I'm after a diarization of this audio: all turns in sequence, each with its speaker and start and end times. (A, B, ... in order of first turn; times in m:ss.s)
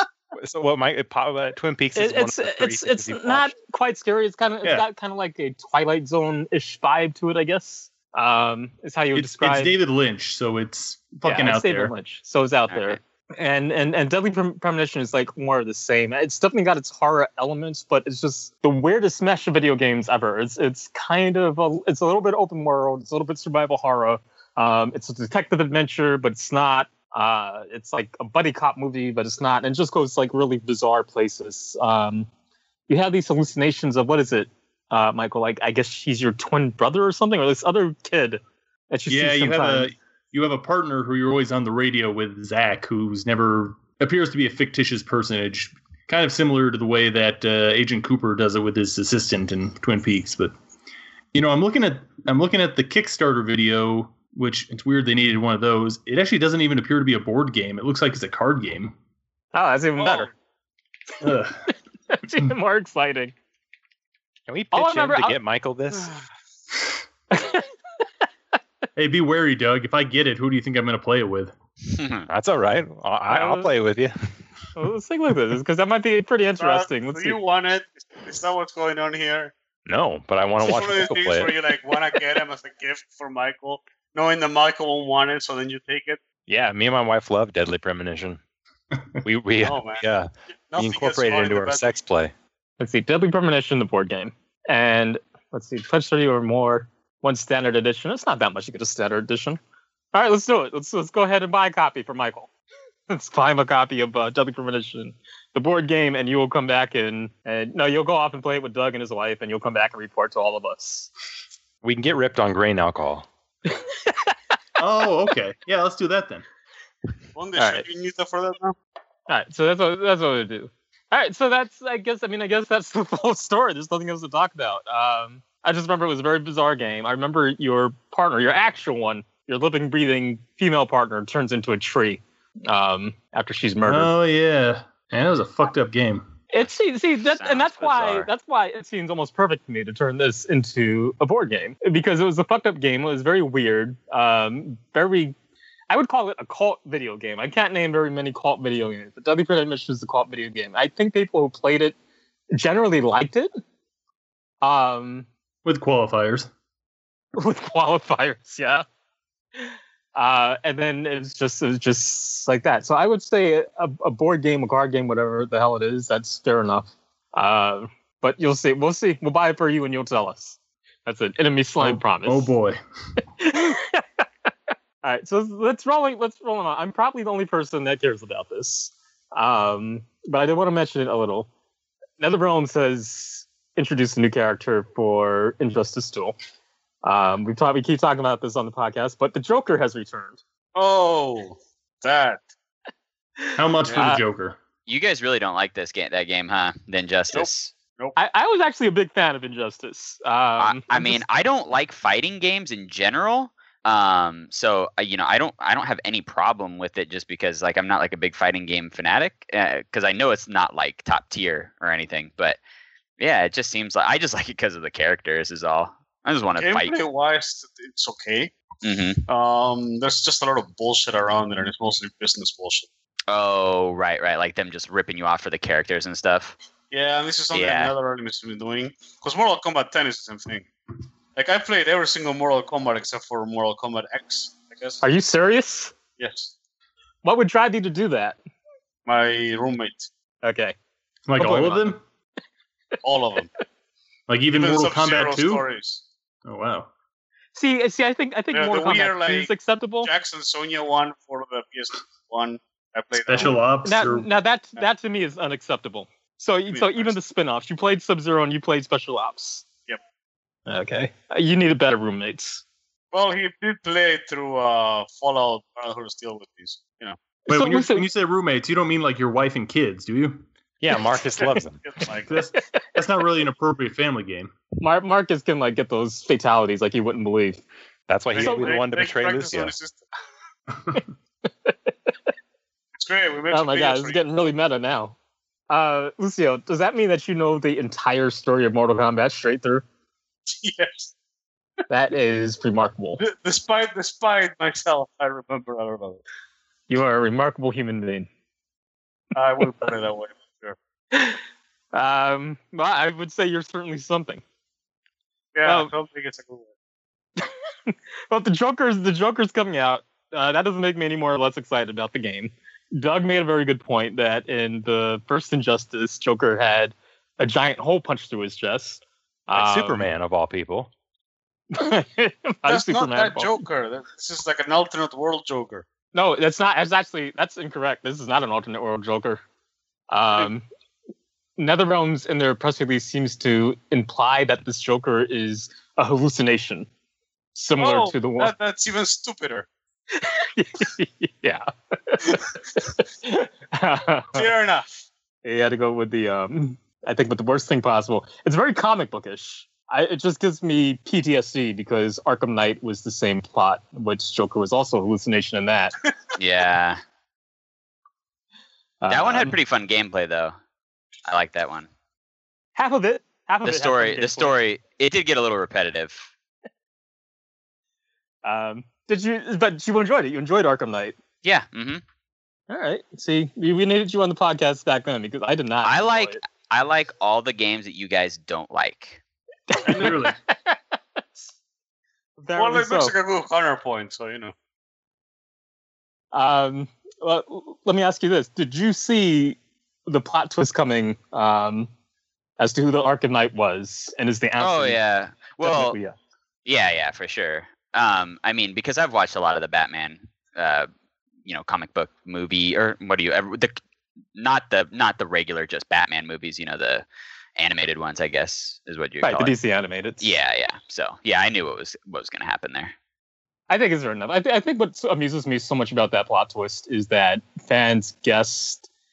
0:00.4-0:03.5 A
0:01.9-0:09.7 B
0:09.1-0:11.9 C
0:11.2-0:32.3 B
0:12.7-0:13.0 D
0:32.9-0:38.4 B
0:38.9-0:39.9 B
0:39.1-0:50.5 C
0:51.3-0:58.9 C
0:59.5-1:00.3 B
1:01.2-1:01.7 C
1:02.1-1:03.3 B
1:04.5-1:06.1 A
1:04.7-1:05.4 B
1:07.3-1:07.7 B
1:09.0-1:11.5 C
1:11.9-1:12.3 D
1:12.3-1:14.1 A
1:13.3-1:13.7 B
1:14.8-1:17.4 B
1:16.6-1:19.5 E
1:19.8-1:21.5 A
1:20.6-1:26.2 E
1:26.4-1:28.4 A
1:29.2-1:32.3 A
1:29.6-1:30.0 E
1:30.7-1:31.9 E
1:32.8-1:39.6 B
1:40.1-1:42.5 B
1:43.1-1:51.1 B
1:51.8-1:53.3 A
1:53.7-1:54.3 B
1:54.8-1:56.4 C
1:57.3-1:58.8 E
1:57.6-1:57.8 B
1:59.3-2:14.1 B
2:13.8-2:16.3 C
2:16.5-2:25.3 B
2:17.4-2:18.3 D
2:25.9-2:32.0 B
2:32.5-2:33.5 B
2:34.6-2:35.3 B
2:35.6-2:36.5 C
2:37.4-2:38.8 B
2:39.6-2:52.5 B
2:51.8-2:52.8 C
2:53.4-2:54.2 B
2:55.0-3:01.5 B
3:02.2-3:06.3 B
3:07.0-3:10.4 B
3:10.7-3:12.4 E
3:13.4-3:14.2 B
3:13.6-3:14.6 C
3:14.9-3:17.7 D
3:17.3-3:18.2 E
3:18.1-3:21.2 B
3:20.6-3:32.6 D
3:33.2-3:37.0 D
3:36.6-3:38.5 E
3:38.8-3:39.2 D
3:39.2-3:42.9 E
3:43.3-3:46.6 D
3:46.9-3:50.6 E
3:47.5-3:47.9 D
3:51.3-3:55.0 E
3:55.0-3:55.9 B
3:56.2-3:56.5 E
3:57.2-3:58.4 B
3:59.0-4:00.1 E
4:00.4-4:00.8 B
4:01.3-4:02.0 C
4:01.4-4:01.9 B
4:03.0-4:03.5 E
4:04.3-4:05.6 C
4:04.5-4:06.0 E
4:06.4-4:06.9 C
4:07.5-4:10.1 B
4:08.5-4:09.5 E
4:10.0-4:13.6 E
4:13.2-4:14.3 C
4:13.8-4:19.6 B
4:16.7-4:17.1 E
4:20.7-4:22.6 B
4:23.1-4:27.2 E
4:27.4-4:28.0 B
4:27.5-4:30.4 C
4:30.8-4:31.8 A
4:31.3-4:32.4 E
4:32.3-4:34.5 C
4:32.5-4:32.8 B
4:34.8-4:37.6 B
4:38.1-4:39.7 A
4:38.3-4:40.0 E
4:38.4-4:38.8 B
4:43.0-4:44.2 E
4:43.5-4:45.2 B
4:45.7-4:49.8 B
4:50.5-4:51.1 E
4:51.9-4:53.2 B
4:53.2-4:56.2 E
4:56.9-4:58.3 B
4:59.3-5:00.8 E
5:01.1-5:01.4 B
5:01.9-5:04.4 B
5:05.5-5:06.7 E
5:07.4-5:20.1 B
5:19.5-5:20.9 A
5:21.7-5:23.6 B
5:22.6-5:25.8 E
5:26.1-5:29.4 B
5:30.1-5:30.6 B
5:31.6-5:36.9 B
5:37.5-5:38.5 B
5:37.8-5:39.7 E
5:40.1-5:44.5 B
5:44.3-5:45.0 E
5:45.4-5:55.9 B
5:56.4-5:57.0 D
5:59.0-5:59.6 B
5:59.1-6:00.5 D
6:01.2-6:01.9 D
6:02.8-6:04.6 B
6:03.6-6:06.3 D
6:08.4-6:11.2 B
6:11.4-6:12.0 D
6:12.7-6:16.4 B
6:15.8-6:19.2 D
6:19.7-6:20.8 B
6:19.8-6:20.4 C
6:22.4-6:23.1 B
6:22.6-6:24.5 E
6:26.3-6:31.9 B
6:32.6-6:35.0 B
6:34.6-6:36.0 D
6:35.6-6:36.1 B
6:36.6-6:40.9 D
6:41.4-6:43.8 D
6:44.3-6:47.0 D
6:47.6-6:49.6 D
6:49.2-6:50.3 B
6:50.2-6:52.9 D
6:53.7-6:58.9 B